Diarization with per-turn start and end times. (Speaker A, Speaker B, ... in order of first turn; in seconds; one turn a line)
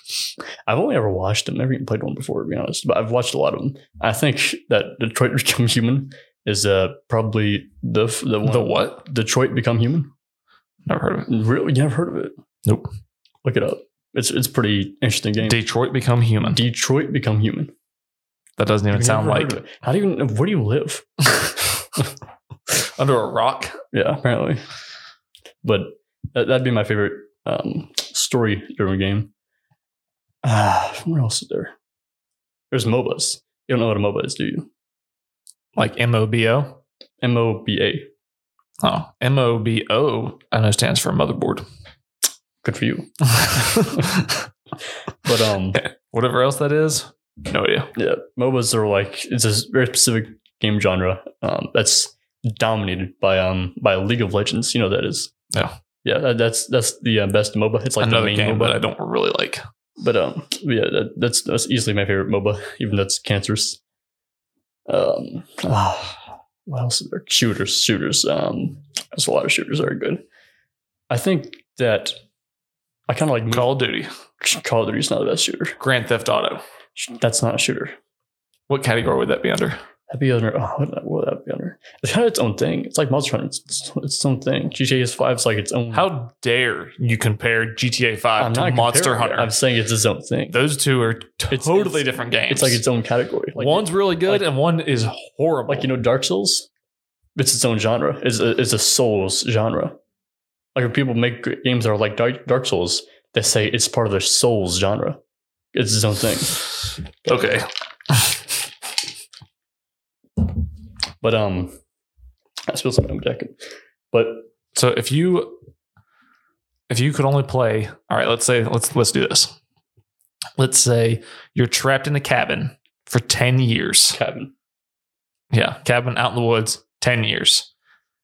Speaker A: 0.7-10.1
Speaker B: 8.5-9.0
Speaker B: 10.9-11.3
Speaker A: 11.3-12.3
Speaker A: 13.4-15.6
Speaker B: 15.4-16.6
Speaker A: 16.5-17.7
Speaker B: 18.6-19.6
Speaker A: 18.9-22.1
Speaker B: 22.8-23.8
Speaker A: 23.9-24.6
Speaker A: 25.6-29.3
Speaker A: 30.4-31.7
Speaker A: 32.7-34.7
Speaker B: 35.8-36.8
Speaker A: 37.2-38.1
Speaker B: 38.8-41.6
Speaker A: 42.6-44.1
Speaker B: 43.3-44.4
Speaker A: 45.2-45.8
Speaker B: 45.7-47.9
Speaker A: 48.0-55.3
Speaker A: 56.0-58.8
Speaker B: 58.0-59.6
Speaker A: 60.0-63.8
Speaker A: 64.9-70.2
Speaker A: 71.1-72.2
Speaker A: 73.1-73.7
Speaker B: 73.5-74.1
Speaker A: 74.4-75.8
Speaker B: 75.8-76.6
Speaker A: 77.0-78.0
Speaker B: 78.7-79.8
Speaker A: 80.1-86.1
Speaker B: 85.9-89.5
Speaker A: 88.4-90.6
Speaker B: 90.5-92.8
Speaker A: 91.5-94.5
Speaker B: 93.6-95.9
Speaker A: 95.7-96.7
Speaker A: 97.4-100.0
Speaker A: 100.8-105.2
Speaker A: 105.7-106.7
Speaker B: 107.3-108.4
Speaker A: 111.2-111.8
Speaker A: 112.7-113.6
Speaker A: 114.1-114.5
Speaker B: 114.7-115.6
Speaker B: 116.9-119.5
Speaker B: 120.6-124.2
Speaker A: 124.2-124.5
Speaker B: 125.5-127.7